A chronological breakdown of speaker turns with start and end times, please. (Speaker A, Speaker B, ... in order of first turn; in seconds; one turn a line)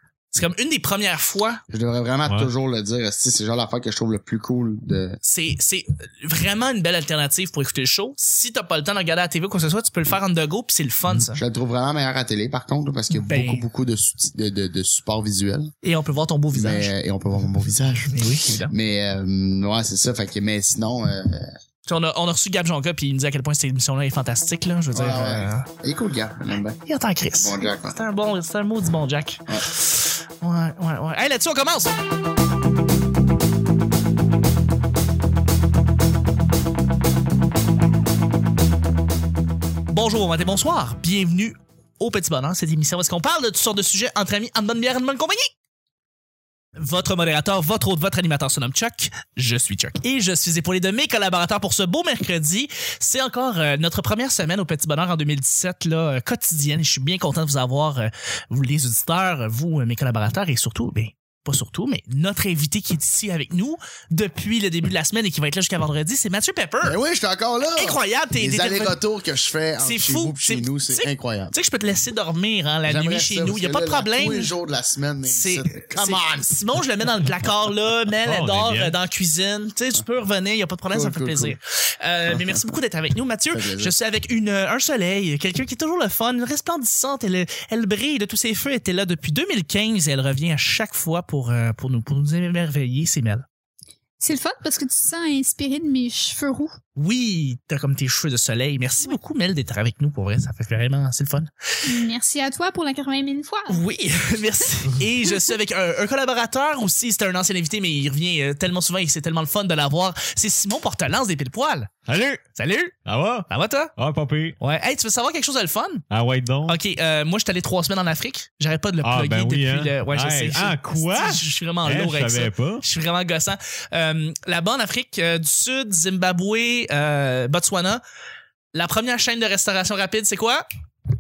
Speaker A: 0.3-1.6
Speaker B: 1.7-5.2
Speaker A: 5.2-11.4
Speaker B: 11.3-15.7
Speaker A: 13.2-13.7
Speaker A: 15.8-16.9
Speaker B: 16.5-21.5
Speaker A: 18.1-18.7
Speaker A: 21.9-25.7
Speaker B: 24.9-26.8
Speaker A: 26.9-31.9
Speaker B: 27.4-28.0
Speaker A: 39.9-45.5
Speaker A: 46.8-67.0
Speaker B: 66.8-71.5
Speaker A: 67.8-69.0
Speaker A: 69.8-74.5
Speaker B: 72.9-76.5
Speaker A: 75.2-93.5
Speaker C: 78.3-79.0
Speaker B: 80.9-81.6
Speaker B: 83.5-83.9
Speaker D: 94.2-96.8
Speaker A: 97.0-101.5
Speaker D: 101.8-103.8
Speaker A: 103.7-111.9
Speaker C: 112.1-112.4
Speaker A: 112.5-113.0
Speaker C: 113.1-114.6
Speaker A: 113.5-113.9
Speaker A: 114.6-116.0
Speaker C: 116.1-116.8
Speaker A: 116.7-128.0
Speaker C: 119.0-122.8
Speaker A: 128.7-130.7